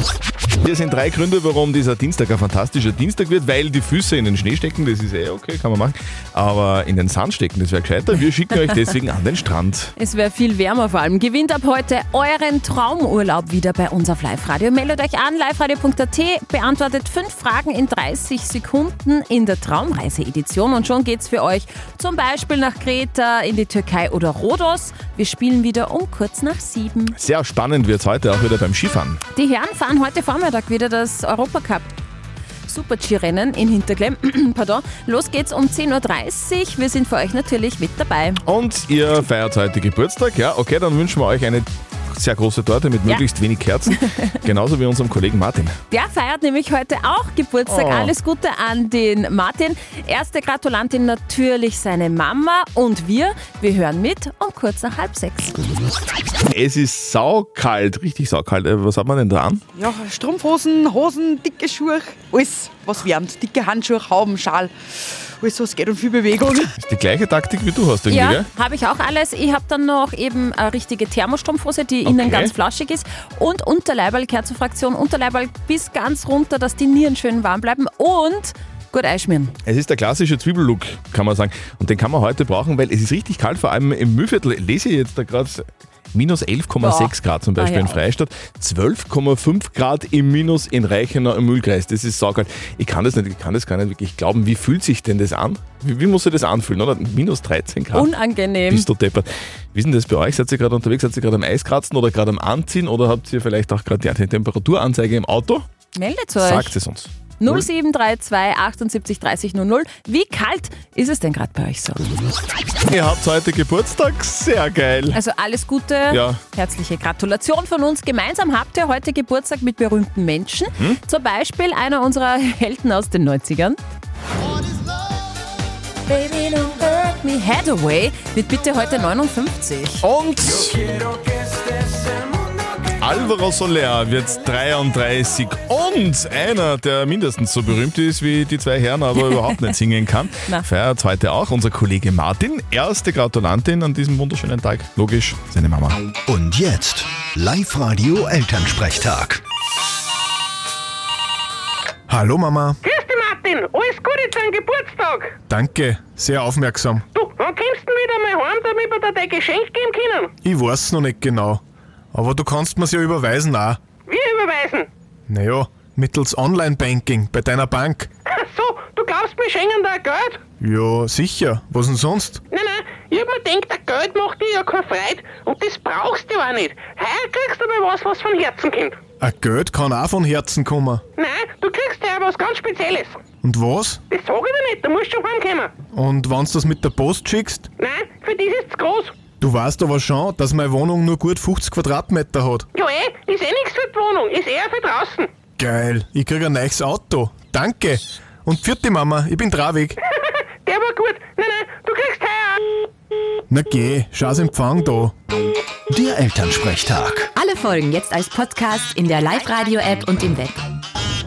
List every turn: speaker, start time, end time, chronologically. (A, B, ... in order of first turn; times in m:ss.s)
0:00.6-0:09.9 A
0:10.0-0:27.2 B
0:27.2-0:29.2 A
0:29.3-0:31.9 B
0:32.7-0:38.4 B
0:38.4-0:45.7 A
0:43.9-0:44.3 B
0:45.9-0:55.6 B
0:47.6-0:48.1 A
0:56.5-0:59.6 A
0:59.7-1:04.7 C
1:05.4-1:06.7 C
1:06.8-1:08.5 A
1:08.1-1:19.5 B
1:12.0-1:12.5 A
1:19.6-1:38.1 A
1:27.6-1:28.0 B
1:37.9-1:38.8 B
1:38.7-1:45.6 A
1:45.9-1:46.8 B
1:46.4-1:47.7 A
1:47.4-1:52.0 B
1:52.9-1:55.2 A
1:55.1-2:03.8 B
1:56.1-1:56.4 A
2:06.1-2:10.0 B
2:10.0-2:10.8 A
2:13.0-2:26.0 A
2:26.3-2:29.4 D
2:32.1-2:32.8 E
2:32.8-2:35.4 F
2:35.5-2:37.0 E
2:37.1-2:40.3 F
2:40.4-2:41.6 E
2:42.1-2:43.8 E
2:44.0-2:44.9 F
2:45.3-2:48.1 E
2:48.2-2:50.4 F
2:50.6-2:52.4 E
2:52.5-2:59.0 F
2:59.2-3:01.0 E
3:01.2-3:03.2 F
3:03.4-3:04.0 E
3:04.1-3:05.7 F
3:05.9-3:07.7 E
3:07.8-3:09.2 F
3:09.4-3:12.7 E
3:12.7-3:15.3 F
3:15.6-3:20.0 E
3:20.1-3:22.6 F
3:23.5-3:25.1 E
3:25.9-3:27.3 D
3:27.4-3:30.6 G